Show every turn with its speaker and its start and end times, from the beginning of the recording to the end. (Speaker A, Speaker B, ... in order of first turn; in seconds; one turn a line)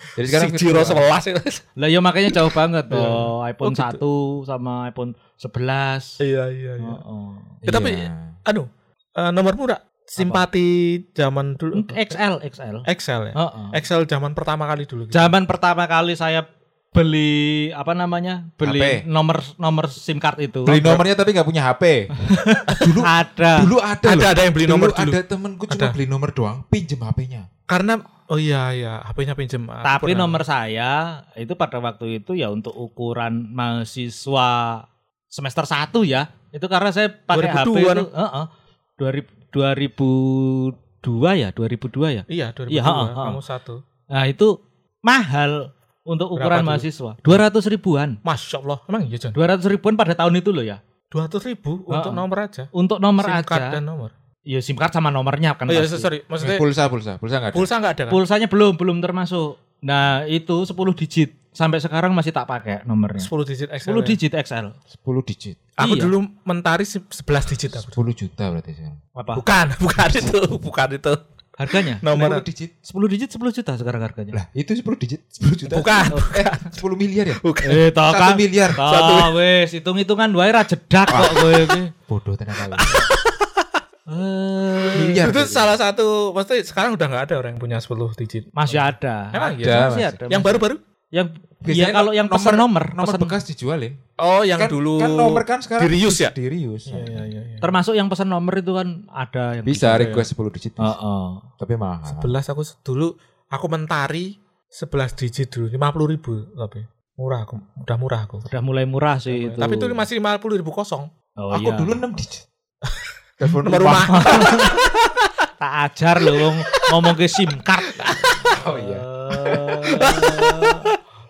Speaker A: 0.1-1.1
Speaker B: 0.1-1.6
Speaker C: 1.8-6.2
Speaker B: 2.9-4.0
Speaker B: 6.2-7.0
Speaker C: 6.8-7.6
Speaker A: 7.6-8.3
Speaker B: 7.6-12.2
Speaker C: 10.2-10.4
Speaker C: 11.7-13.8
Speaker B: 12.8-15.3
Speaker C: 15.1-20.9
Speaker A: 18.6-19.0
Speaker A: 20.6-22.1
Speaker B: 20.7-21.0
Speaker C: 22.2-23.7
Speaker A: 22.7-27.5
Speaker B: 24.0-26.0
Speaker B: 27.7-30.4
Speaker C: 29.8-43.4
Speaker B: 37.3-38.1
Speaker B: 42.3-43.8
Speaker C: 44.1-48.2
Speaker B: 46.4-46.9
Speaker B: 48.2-49.4
Speaker C: 49.3-50.8
Speaker B: 51.1-54.1
Speaker C: 51.9-53.8
Speaker C: 54.5-56.1
Speaker B: 55.7-56.6
Speaker A: 56.4-57.7
Speaker B: 57.5-58.2
Speaker C: 58.1-63.3
Speaker B: 63.2-64.2
Speaker C: 63.9-64.8
Speaker A: 64.9-65.7
Speaker B: 65.8-68.0
Speaker C: 65.8-66.1
Speaker A: 67.7-69.0
Speaker C: 69.2-69.4
Speaker B: 69.3-71.2
Speaker C: 71.6-72.0
Speaker B: 71.7-72.4
Speaker A: 72.1-72.7
Speaker C: 72.8-74.4
Speaker A: 74.3-77.4
Speaker B: 75.7-76.8
Speaker B: 77.4-77.9
Speaker C: 77.6-81.9
Speaker A: 78.0-78.8
Speaker B: 78.8-79.4
Speaker A: 81.1-82.9
Speaker B: 82.7-83.6
Speaker C: 84.1-85.2
Speaker A: 84.9-85.8
Speaker B: 85.2-90.8
Speaker C: 88.5-93.4
Speaker A: 89.6-90.2
Speaker A: 91.6-94.0
Speaker B: 94.2-96.3
Speaker A: 94.5-97.3
Speaker B: 96.8-97.7
Speaker C: 97.6-100.1
Speaker A: 99.6-101.0
Speaker B: 99.9-100.3
Speaker C: 100.8-101.5
Speaker A: 101.6-102.3
Speaker B: 102.1-108.5
Speaker C: 108.5-110.1
Speaker B: 109.3-111.1
Speaker C: 111.4-112.0
Speaker A: 111.5-112.5
Speaker A: 113.4-114.6
Speaker B: 113.6-115.3
Speaker C: 114.0-114.8
Speaker C: 115.6-120.9
Speaker A: 118.0-119.9
Speaker B: 119.9-121.0